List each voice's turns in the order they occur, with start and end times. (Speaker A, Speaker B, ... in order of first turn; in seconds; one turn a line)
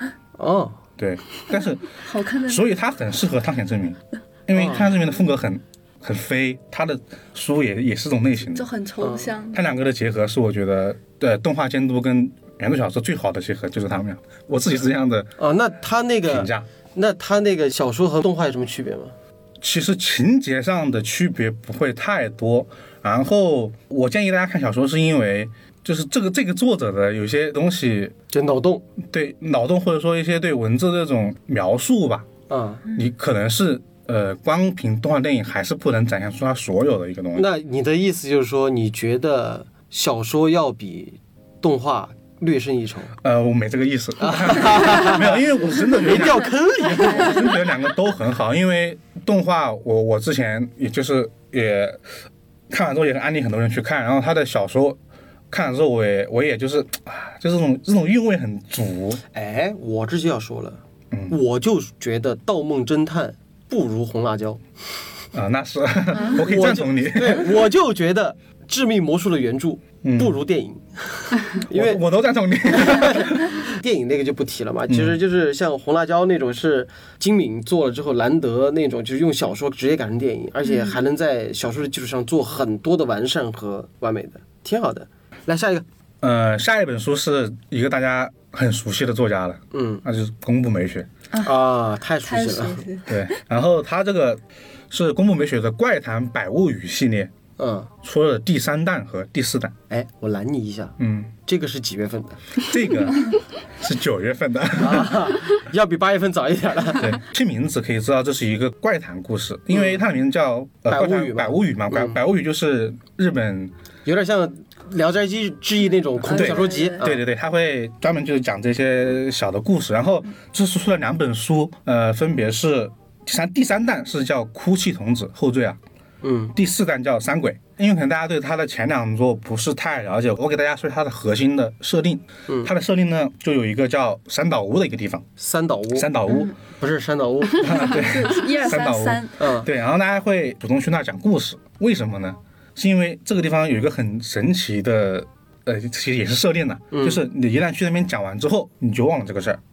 Speaker A: 0.4-0.8
Speaker B: 1.0-1.9
Speaker C: 1.9-2.7
Speaker B: 2.4-8.7
Speaker A: 4.5-4.9
Speaker C: 8.6-9.6
Speaker A: 9.0-9.3
Speaker B: 9.5-15.3
Speaker A: 15.4-19.1
Speaker B: 16.3-16.7
Speaker B: 19.6-28.1
Speaker A: 28.3-28.8
Speaker B: 29.1-32.3
Speaker A: 32.5-32.9
Speaker B: 32.9-37.5
Speaker A: 37.4-43.1
Speaker B: 43.2-52.0
Speaker A: 44.2-47.5
Speaker B: 52.7-55.0
Speaker B: 55.5-59.2
Speaker A: 59.3-64.6
Speaker B: 61.1-61.4
Speaker B: 65.3-67.7
Speaker A: 66.4-72.0
Speaker B: 70.0-70.3
Speaker B: 71.6-73.6
Speaker A: 72.7-85.8
Speaker B: 74.9-75.2
Speaker B: 86.2-91.1
Speaker A: 89.7-90.0
Speaker C: 91.3-91.6
Speaker A: 91.4-92.9
Speaker C: 92.2-93.2
Speaker B: 93.1-97.3
Speaker A: 97.6-97.9
Speaker B: 98.0-99.8
Speaker A: 99.9-102.4
Speaker B: 101.0-101.3
Speaker B: 102.6-105.3
Speaker A: 104.8-107.1
Speaker B: 107.0-113.7
Speaker A: 110.9-112.2
Speaker A: 114.1-117.2
Speaker C: 116.2-117.0
Speaker B: 116.3-125.8
Speaker A: 126.2-126.5
Speaker B: 126.5-135.3
Speaker A: 135.4-136.1
Speaker B: 135.9-136.5
Speaker A: 136.8-138.0
Speaker B: 137.6-149.6
Speaker C: 137.7-139.4
Speaker A: 139.4-139.7
Speaker A: 146.9-147.2